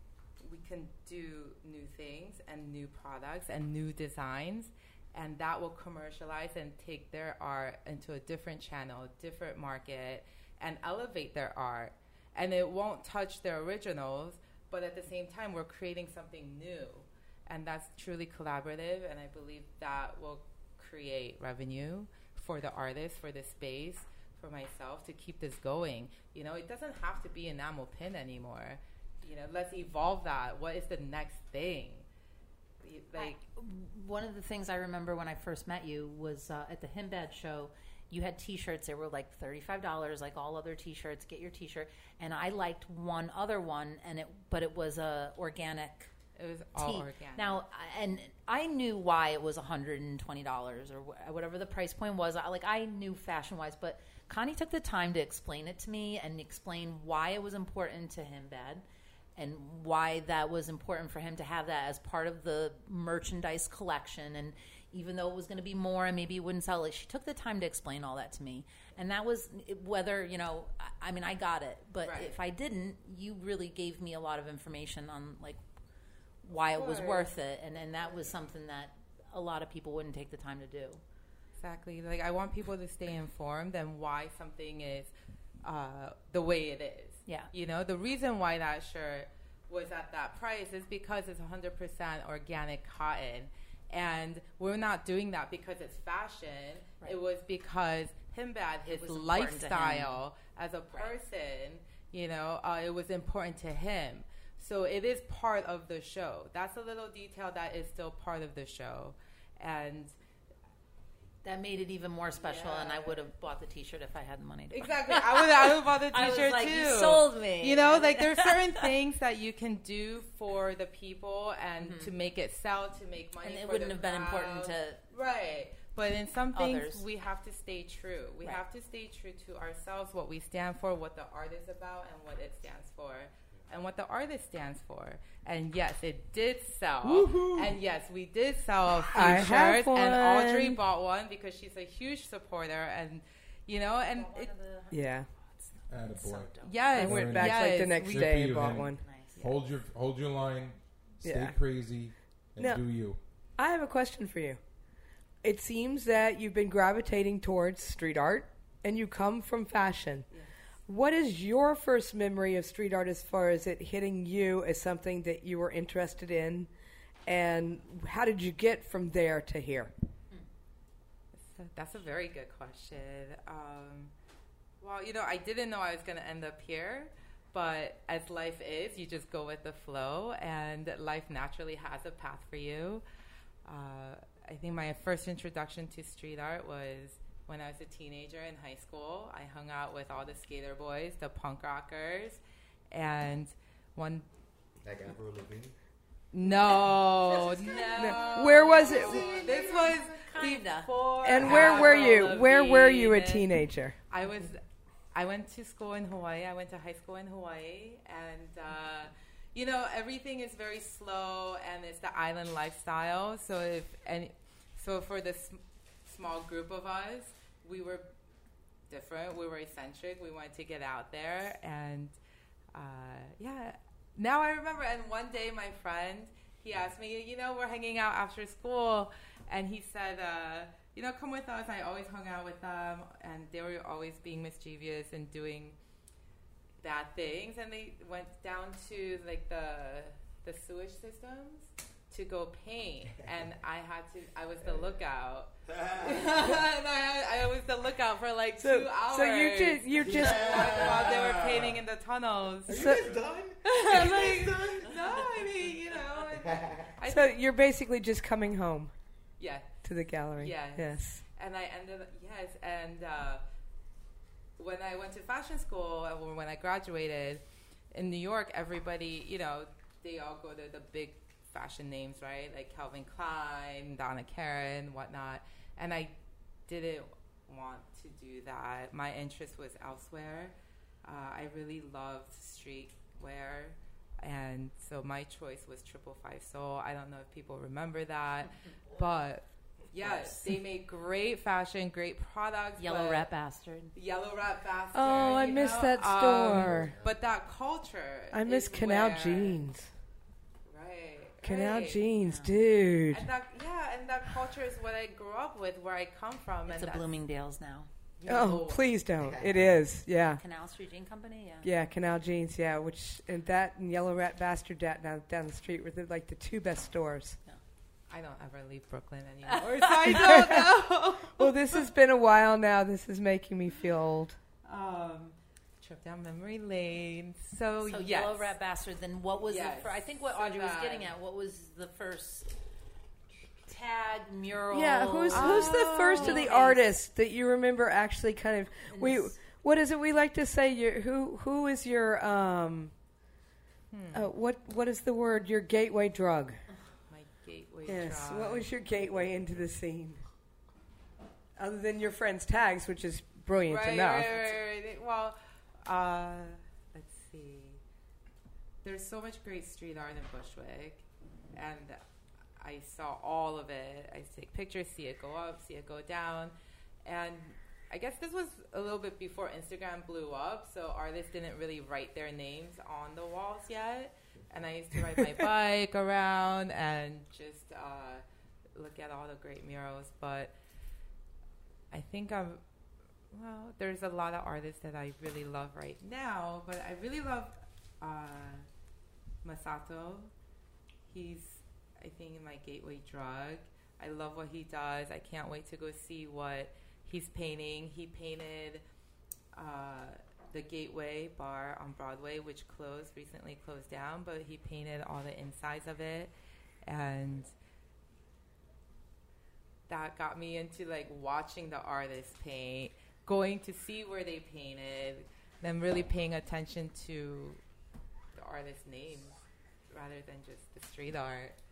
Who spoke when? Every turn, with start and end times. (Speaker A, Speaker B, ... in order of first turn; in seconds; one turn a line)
Speaker A: 0.4-32.1
Speaker A: 32.8-33.4
Speaker B: 33.1-46.1
Speaker A: 46.4-47.6
Speaker B: 46.8-58.8
Speaker B: 59.4-75.6
Speaker A: 72.0-72.3
Speaker B: 76.4-81.0
Speaker A: 76.5-77.3
Speaker A: 81.6-85.1
Speaker A: 85.6-110.1
Speaker B: 98.9-100.2
Speaker B: 111.4-118.6
Speaker A: 112.4-113.1
Speaker A: 114.7-144.5
Speaker B: 121.8-122.1
Speaker B: 123.4-125.0
Speaker B: 126.5-127.0
Speaker C: 137.0-137.8
Speaker D: 139.1-140.8
Speaker B: 144.1-146.9
Speaker D: 144.9-145.3
Speaker C: 145.9-153.2
Speaker A: 146.6-148.7
Speaker D: 146.9-149.0
Speaker B: 149.0-149.4
Speaker A: 149.3-149.7
Speaker D: 151.2-151.6
Speaker D: 152.6-152.8
Speaker D: 153.6-154.6
Speaker D: 155.4-160.3
Speaker D: 160.9-166.7
Speaker D: 167.2-169.9
Speaker A: 171.4-174.1
Speaker A: 174.8-183.0
Speaker A: 183.6-192.4
Speaker A: 192.9-194.3
Speaker E: 194.8-195.7
Speaker A: 196.3-203.4
Speaker B: 197.2-202.3
Speaker D: 197.9-199.4
Speaker D: 201.2-204.0
Speaker A: 204.1-204.6
Speaker A: 205.1-218.1
Speaker A: 218.9-222.2
Speaker A: 222.7-235.8
Speaker A: 236.8-253.0
Speaker D: 248.6-251.0
Speaker E: 250.0-251.8
Speaker E: 252.7-255.2
Speaker D: 252.7-253.0
Speaker A: 253.6-257.4
Speaker E: 256.4-256.9
Speaker D: 257.1-258.9
Speaker A: 259.4-259.7
Speaker D: 259.8-261.2
Speaker A: 260.3-263.4
Speaker A: 264.6-267.4
Speaker A: 267.9-293.3
Speaker B: 290.0-290.6
Speaker B: 292.8-293.9
Speaker A: 293.9-299.6
Speaker D: 294.9-296.9
Speaker B: 295.3-295.6
Speaker E: 296.5-297.2
Speaker D: 298.3-299.9
Speaker A: 300.7-302.1
Speaker D: 301.4-303.2
Speaker B: 302.2-302.5
Speaker A: 303.1-307.1
Speaker B: 306.6-307.9
Speaker A: 308.2-308.9
Speaker D: 308.2-310.4
Speaker E: 309.2-309.8
Speaker B: 310.4-311.7
Speaker D: 311.6-317.4
Speaker A: 318.1-321.5
Speaker B: 319.5-320.2
Speaker D: 320.1-320.7
Speaker D: 321.2-324.4
Speaker A: 324.6-328.5
Speaker B: 327.8-332.6
Speaker A: 329.4-331.1
Speaker B: 333.6-336.9
Speaker D: 334.7-342.9
Speaker A: 335.3-336.7
Speaker B: 338.9-339.4
Speaker A: 343.9-344.3
Speaker D: 344.1-346.6
Speaker A: 347.1-348.7
Speaker D: 347.9-350.2
Speaker D: 351.6-354.4
Speaker A: 353.6-357.8
Speaker A: 358.8-362.0
Speaker A: 362.6-366.5
Speaker A: 367.0-378.2
Speaker A: 378.7-380.6
Speaker A: 381.9-382.6
Speaker A: 383.3-388.6
Speaker A: 389.4-390.3
Speaker A: 391.1-398.8
Speaker A: 399.5-406.3
Speaker A: 406.8-407.5
Speaker A: 409.9-417.6
Speaker A: 418.3-419.4
Speaker A: 419.9-421.6